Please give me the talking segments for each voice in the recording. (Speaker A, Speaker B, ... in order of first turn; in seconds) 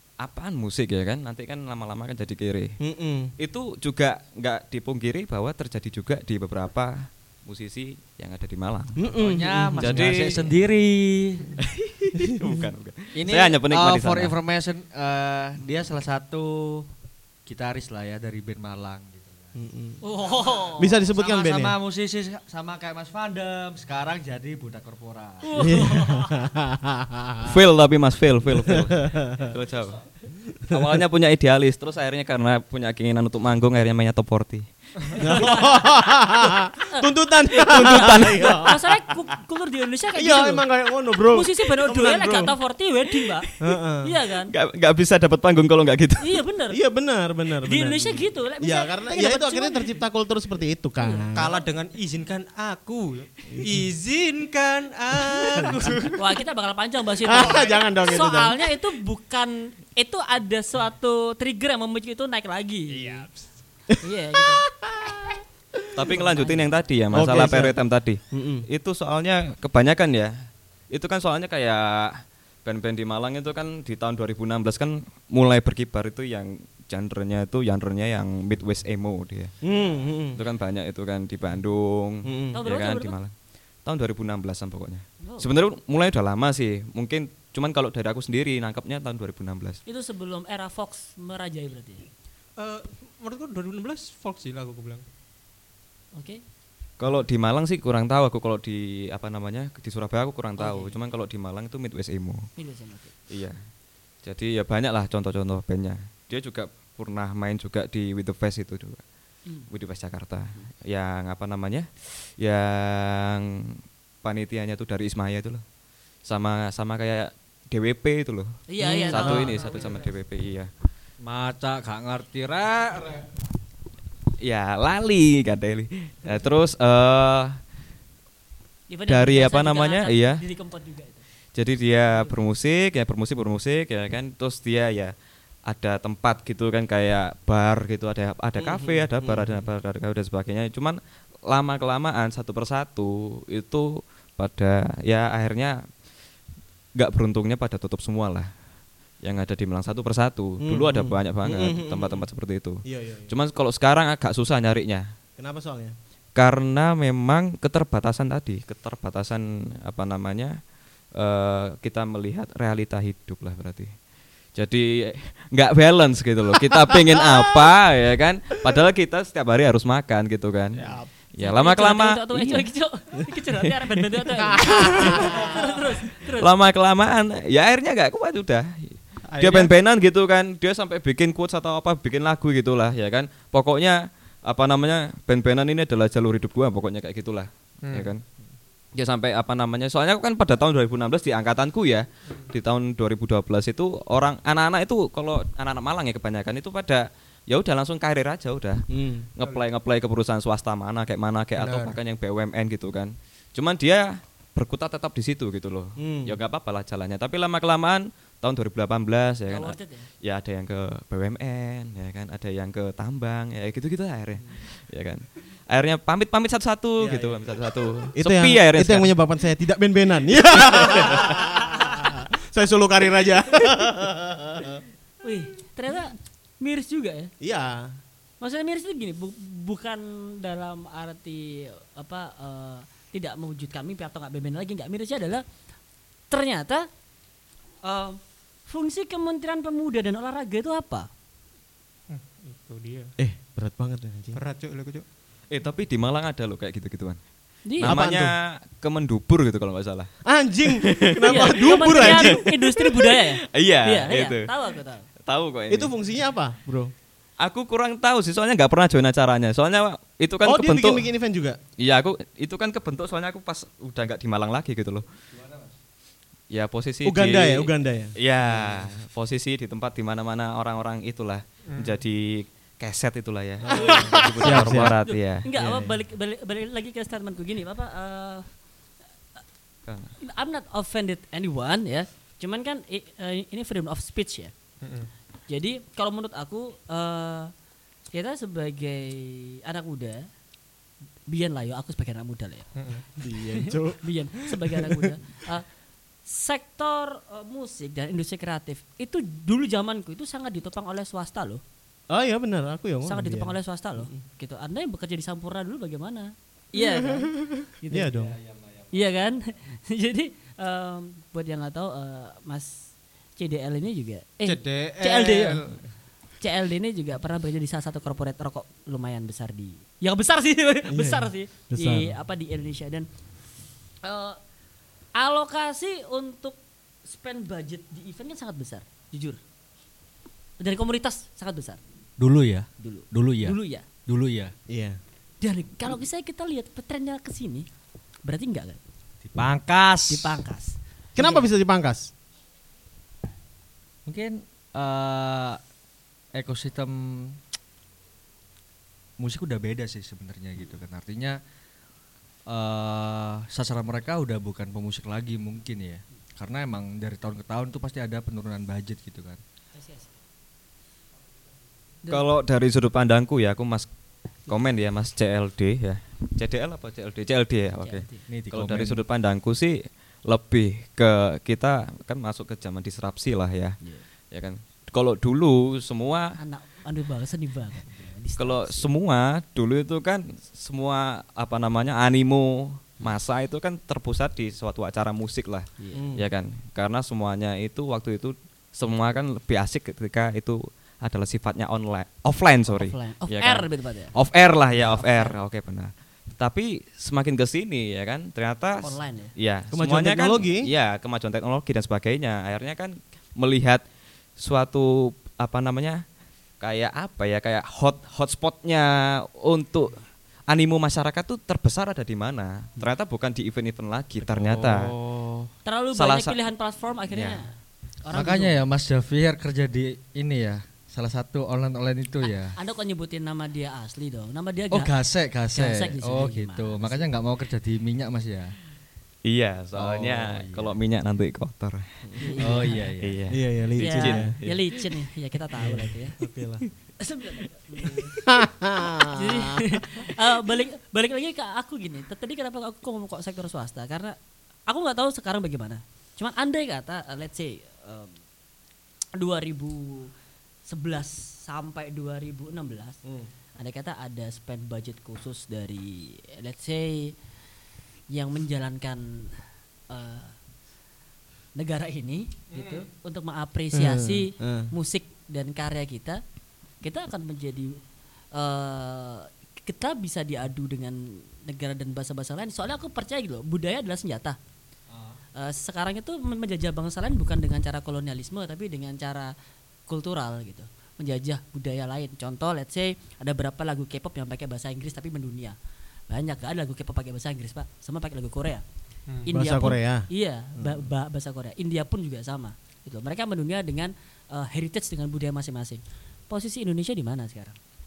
Speaker A: 0.2-2.7, 3.4-9.0, 9.8-10.3, 11.6-14.3, 27.4-30.0, 30.7-35.2, 44.5-46.4, 65.9-70.3, 70.9-79.5, 80.3-83.3, 83.8-89.8, 97.0-102.5, 103.3-103.5, 104.2-109.0, 109.7-115.6, 116.2-120.7, 124.4-127.6, 129.1-130.4, 131.5-135.1, 135.7-145.8, 146.9-148.5, 149.2-155.0, 156.3-163.9, 164.5-172.7, 173.5-175.2, 176.3-188.2, 188.9-198.8, 199.3-219.1, 220.7-221.3, 245.5-247.2, 247.8-250.1, 250.7-252.4, 253.1-254.5, 255.2-255.9, 257.4-261.1, 261.8-265.0, 266.5-275.5, 279.9-280.1, 362.1-363.9, 364.5-373.8, 374.3-376.4, 378.4-403.8, 404.4-406.0, 406.6-414.9, 415.9-416.4, 417.1-417.4, 429.2-431.8, 433.0-434.5
Speaker B: 2.8-3.3, 9.0-10.3, 12.2-12.7, 19.6-20.0, 20.8-21.7, 25.6-27.5, 28.6-29.5, 30.7-31.0, 35.2-38.8, 40.1-42.5, 43.6-44.1, 46.7-51.5, 53.5-53.8, 55.2-56.1, 57.2-58.6, 63.9-66.2, 67.1-67.7, 68.3-68.6, 79.6-80.4, 82.2-82.6, 119.2-119.5, 139.2-139.6, 150.6-152.3, 152.8-153.3, 155.4-155.9, 166.8-167.7, 174.5-175.6, 198.9-199.3, 206.0-206.4, 217.0-217.4, 218.2-224.8, 227.4-228.0, 243.2-244.4, 247.8-248.3, 250.2-252.6, 255.7-256.9, 260.4-261.6, 267.0-268.9, 273.7-274.9, 275.5-275.9, 293.2-295.1, 302.1-304.2, 306.8-308.4, 320.9-322.1, 334.7-335.0, 341.1-342.1, 385.9-386.2, 399.7-400.6, 432.1-432.4, 433.3-434.3, 435.6-436.6, 437.9-440.1, 463.7-464.7, 489.3-490.9
Speaker C: 9.0-11.6, 13.2-16.9, 17.4-19.6, 20.2-25.7, 121.2-123.3, 265.3-265.7, 308.1-308.9, 332.2-334.5, 339.2-340.4, 344.1-345.6, 346.3-347.4, 349.2-351.4, 352.5-359.4, 368.3-369.0, 414.2-415.5, 418.1-422.5, 424.7-428.6, 429.8-430.8, 432.4-433.2, 474.9-475.2
Speaker D: 20.0-21.0, 25.4-26.4, 35.1-35.9, 36.9-40.6, 41.2-43.5, 44.0-44.5, 46.2-46.8, 47.6-50.0, 51.0-51.3, 56.1-63.3, 64.0-64.6, 66.2-66.6, 82.5-83.2, 85.2-85.5, 89.8-92.0, 96.1-96.4, 100.6-100.9, 102.6-103.1, 118.7-119.6, 128.9-131.2, 132.1-132.4, 171.4-176.5, 209.5-210.1, 225.2-227.3, 228.4-235.4, 236.3-236.9, 237.8-241.1, 247.7-247.9, 251.2-255.1, 273.7-278.5, 280.2-284.5, 285.5-287.5, 288.1-290.2, 291.3-292.7, 293.4-295.7, 296.2-301.6, 303.0-308.1, 308.9-315.6, 316.4-323.1, 324.0-324.4, 325.1-329.4, 330.6-331.8, 332.8-333.9, 335.4-337.6, 338.2-338.8, 340.1-341.4, 359.7-360.1, 367.8-368.2, 376.4-378.9, 385.8-386.0, 392.7-394.1, 394.9-395.4, 398.8-399.3, 415.6-417.5, 418.0-418.6, 422.2-424.9, 425.5-427.1, 432.2-432.9, 433.8-438.3, 439.0-444.1, 444.7-448.2, 449.1-450.1, 450.7-453.0, 453.6-457.1, 458.1-459.3, 459.9-460.4, 461.5-466.2, 466.8-467.8, 468.3-474.4, 475.4-479.3, 479.9-485.5, 486.1-488.6, 489.2-497.6
Speaker E: 51.3-56.2, 57.4-57.7, 62.9-63.4, 92.6-95.0, 119.5-119.9, 170.8-171.1, 179.3-179.7, 187.9-188.1, 201.6-202.0, 242.1-243.1, 244.3-245.0, 271.7-272.0, 284.8-285.1, 292.8-293.0, 314.4-315.8